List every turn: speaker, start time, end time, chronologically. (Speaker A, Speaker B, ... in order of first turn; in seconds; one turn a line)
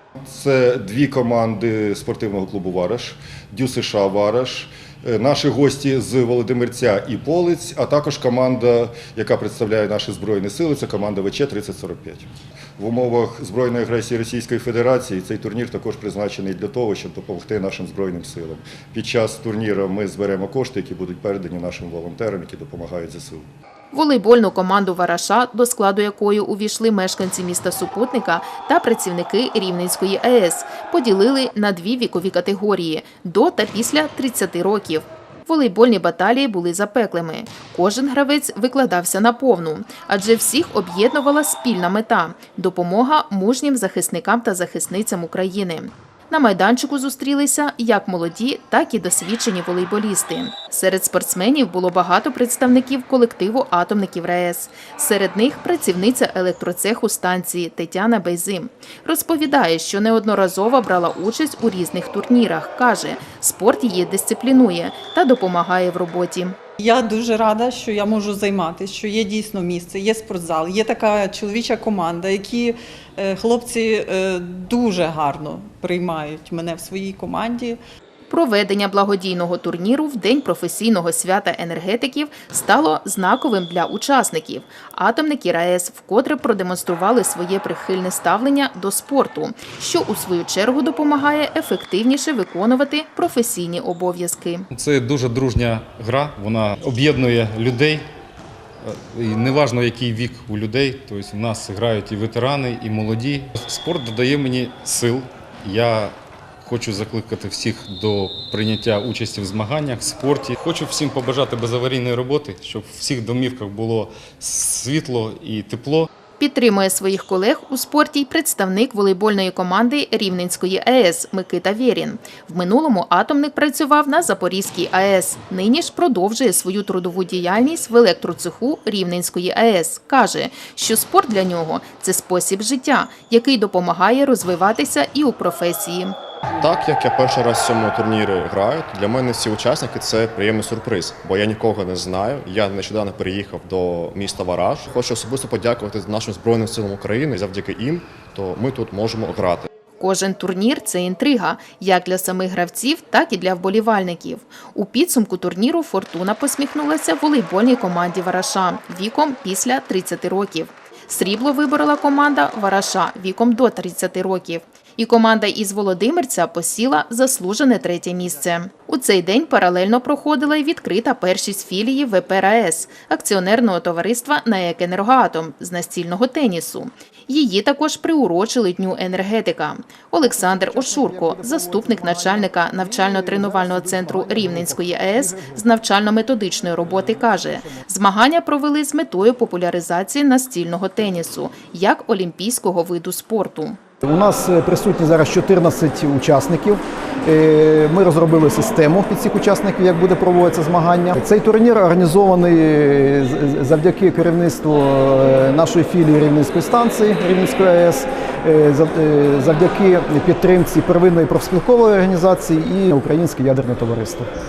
Speaker A: 0.2-23.4
Speaker B: 23.9-66.6
Speaker C: 66.8-77.8
Speaker B: 78.3-94.7
Speaker D: 94.7-98.0
Speaker D: 98.8-116.1
Speaker B: 116.4-136.2
Speaker E: 136.6-149.7
Speaker B: 150.0-193.8
Speaker F: 180.2-185.7
Speaker F: 187.4-187.8
Speaker F: 194.0-214.3